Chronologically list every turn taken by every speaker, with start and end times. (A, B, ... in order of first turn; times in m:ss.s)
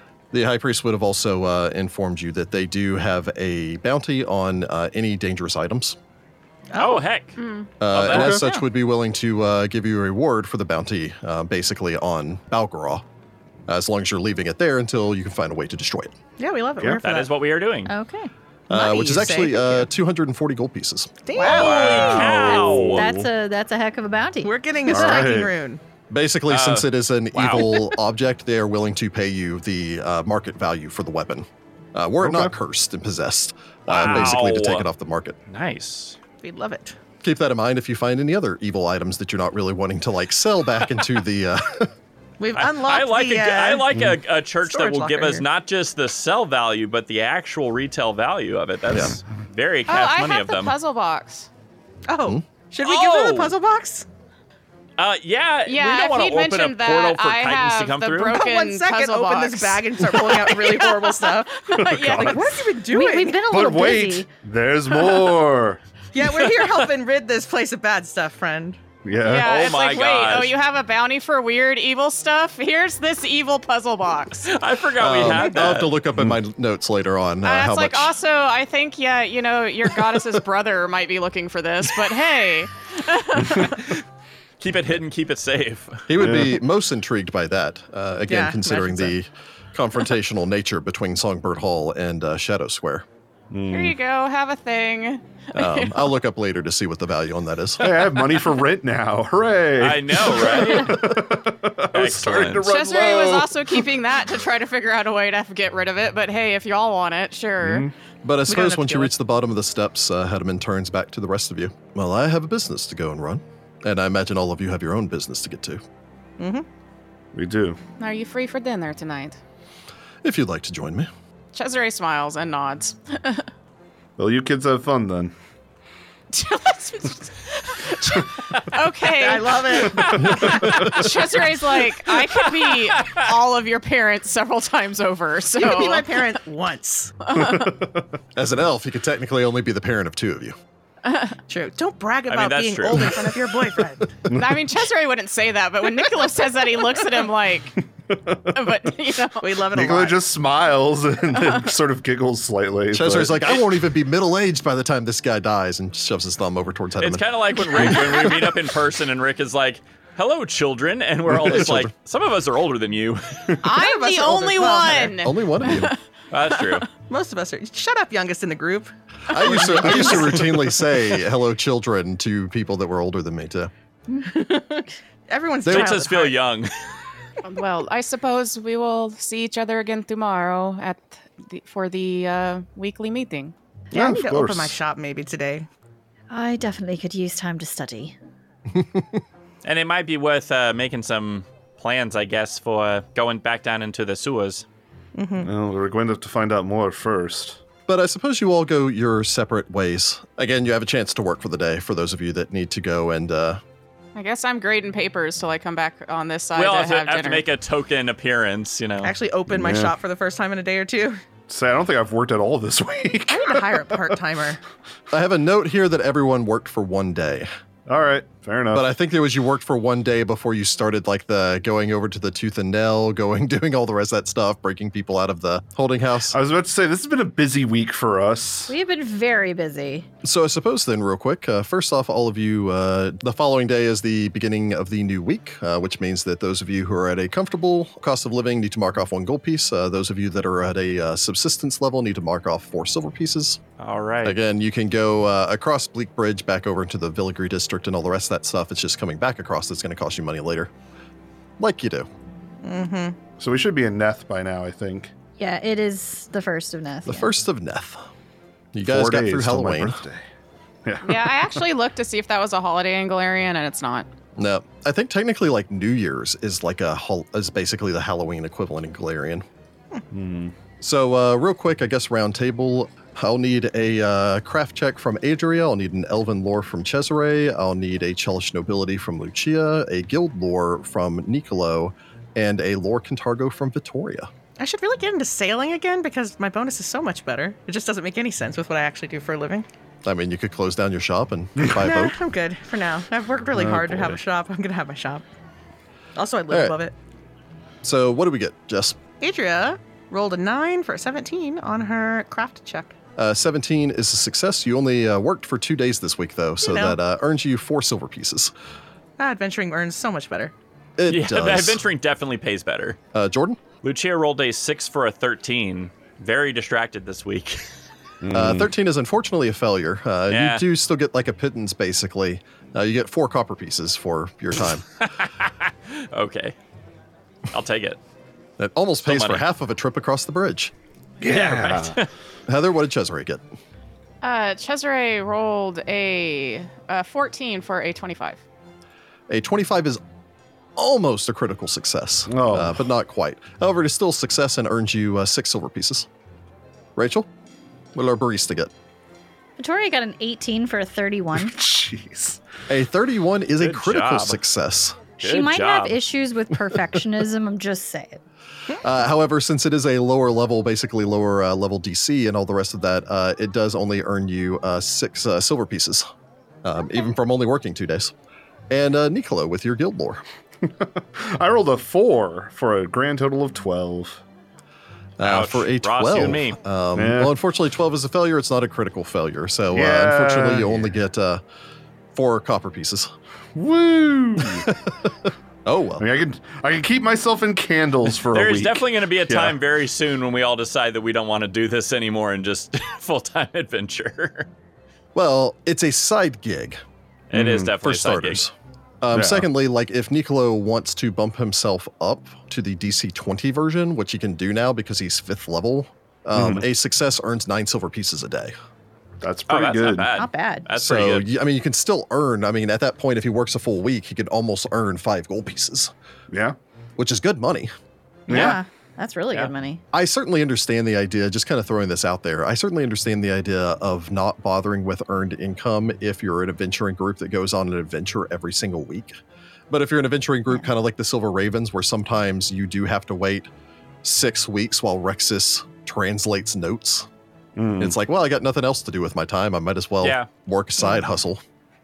0:00.3-0:06.0 A
0:06.7-0:07.0 B
0:06.7-0:07.3 C
0:07.4-0:07.7 D
0:07.8-0:13.0 A
0:07.9-0:08.5 C
0:08.1-0:08.4 E
0:13.7-0:16.1 A
0:16.4-0:17.3 B
0:17.0-0:17.9 C
0:17.9-0:18.3 F
0:18.7-0:21.3 A
0:18.7-0:19.9 B
0:21.2-0:22.6 B
0:21.4-0:23.1 C
0:21.4-0:23.3 E
0:21.6-0:21.9 F
0:22.9-0:25.3 F
0:24.4-0:25.8 B
0:24.9-0:25.5 E
0:26.1-0:35.4 A
0:26.5-0:27.9 C
0:32.2-0:32.5 E
0:33.9-0:34.9 C
0:34.0-0:34.3 E
0:35.5-0:36.2 C
0:36.4-0:37.0 B
0:37.2-0:41.9 A
0:42.4-0:43.9 B
0:42.5-0:50.7 C
0:43.9-0:44.2 E
0:44.6-0:45.4 B
0:48.9-0:49.2 A
0:49.9-0:51.5 D
0:52.1-0:54.1 B
0:52.8-0:53.5 C
0:55.0-0:58.4 C
0:55.6-1:02.6 D
0:58.3-1:03.4 B
1:01.8-1:02.5 E
1:02.9-1:04.3 F
1:03.5-1:05.8 E
1:06.1-1:08.8 B
1:06.3-1:06.8 C
1:09.0-1:09.5 E
1:09.2-1:14.5 D
1:09.3-1:10.5 C
1:14.4-1:16.0 C
1:15.0-1:18.1 A
1:17.4-1:23.8 D
1:23.7-1:24.0 C
1:24.6-1:26.1 C
1:26.1-1:33.0 A
1:26.2-1:26.6 E
1:28.3-1:29.1 B
1:33.5-1:34.0 E
1:33.7-1:36.1 D
1:35.5-1:38.0 A
1:37.8-1:43.9 E
1:39.8-1:41.2 C
1:41.9-1:42.7 C
1:42.6-1:47.9 D
1:47.6-1:47.9 E
1:48.2-1:55.8 A
1:48.5-1:49.1 B
1:56.4-1:56.6 B
1:57.3-1:57.8 E
1:58.0-1:59.4 D
2:00.2-2:01.1 A
2:01.5-2:03.5 D
2:04.2-2:05.3 E
2:06.3-2:16.2 D
2:09.0-2:10.6 B
2:09.9-2:10.2 C
2:10.2-2:11.0 A
2:12.5-2:13.2 C
2:15.5-2:17.2 B
2:17.3-2:17.7 D
2:17.3-2:18.0 E
2:18.3-2:20.6 A
2:21.0-2:21.4 D
2:21.5-2:24.1 B
2:22.3-2:23.4 C
2:24.3-2:24.6 E
2:24.3-2:27.8 D
2:28.1-2:28.7 E
2:28.5-2:29.5 D
2:29.4-2:30.2 B
2:29.7-2:33.6 E
2:32.9-2:38.1 A
2:37.0-2:43.6 C
2:41.3-2:41.9 A
2:43.6-2:46.0 D
2:43.6-2:45.2 B
2:45.1-2:45.9 A
2:46.3-2:46.9 C
2:47.1-2:50.4 B
2:49.3-2:53.7 A
2:49.6-2:50.1 E
2:54.1-2:56.4 B
2:55.6-2:56.0 A
2:55.6-2:56.7 C
2:57.4-3:03.5 D
3:03.9-3:04.8 E
3:03.9-3:05.7 B
3:06.3-3:08.1 F
3:09.6-3:14.6 C
3:15.2-3:15.5 B
3:15.4-3:17.6 E
3:17.9-3:23.6 A
3:24.2-3:27.4 D
3:26.5-3:29.1 C
3:29.0-3:31.2 B
3:29.5-3:30.0 E
3:31.5-3:33.9 E
3:33.3-3:34.6 B
3:35.1-3:37.5 A
3:37.9-3:38.9 E
3:38.7-3:46.4 A
3:46.3-3:48.8 E
3:48.7-3:50.1 F
3:50.2-4:03.6 A
4:03.8-4:04.4 C
4:04.2-4:10.7 A
4:11.6-4:12.1 A
4:12.6-4:13.2 B
4:13.4-4:15.1 E
4:15.4-4:17.3 F
4:17.0-4:18.0 A
4:18.7-4:20.0 A
4:18.8-4:20.2 E
4:20.8-4:21.6 E
4:21.0-4:24.1 D
4:24.4-4:29.4 A
4:30.1-4:30.5 E
4:30.8-4:44.3 A
4:44.6-4:49.6 B
4:50.0-4:52.2 A
4:51.7-4:55.2 B
4:53.5-4:54.2 E
4:56.2-4:56.9 B
4:56.5-4:56.8 A
4:57.8-4:59.0 A
4:59.2-5:02.9 B
5:03.2-5:08.5 A
5:06.6-5:07.0 B
5:09.2-5:10.5 B
5:11.0-5:11.8 A
5:11.1-5:13.0 C
5:13.1-5:13.6 A
5:13.8-5:17.6 C
5:18.2-5:18.7 E
5:18.3-5:24.8 A
5:20.3-5:20.6 C
5:25.0-5:26.5 C
5:27.5-5:28.0 C
5:28.6-5:30.7 A
5:29.0-5:29.4 C
5:31.2-5:32.0 E
5:31.2-5:32.1 C
5:32.5-5:33.4 A
5:34.2-5:38.4 D
5:39.3-5:40.0 A
5:40.8-5:46.1 A
5:42.3-5:42.9 E
5:47.0-5:47.3 A
5:47.9-5:48.7 A
5:49.6-5:51.6 F
5:51.4-5:52.4 E
5:52.7-5:55.0 A
5:53.6-5:54.4 C
5:55.2-5:58.2 F
5:55.2-5:56.0 C
5:58.8-6:06.1 A
6:06.6-6:08.1 A
6:08.7-6:10.2 A
6:10.6-6:14.2 E
6:15.2-6:21.4 A
6:15.2-6:16.6 C
6:17.0-6:17.3 E
6:19.7-6:20.9 E
6:22.1-6:23.1 A
6:23.5-6:24.7 E
6:24.4-6:26.0 A
6:26.0-6:29.6 E
6:28.3-6:34.5 C
6:35.1-6:36.8 A
6:37.3-6:38.4 C
6:37.3-6:37.7 E
6:37.8-6:48.5 A
6:39.1-6:39.5 E
6:46.3-6:46.6 E
6:49.2-6:50.1 E
6:49.5-6:51.3 C
6:50.1-6:50.7 F
6:50.8-6:55.9 A
6:56.3-6:56.6 E
6:57.0-6:57.7 A
6:58.3-6:58.6 E
6:58.3-6:58.6 C
6:58.3-6:59.8 F
6:59.9-7:09.2 A
7:09.7-7:13.5 A
7:14.0-7:17.1 A
7:17.6-7:18.0 E
7:17.8-7:21.4 A
7:20.0-7:20.3 C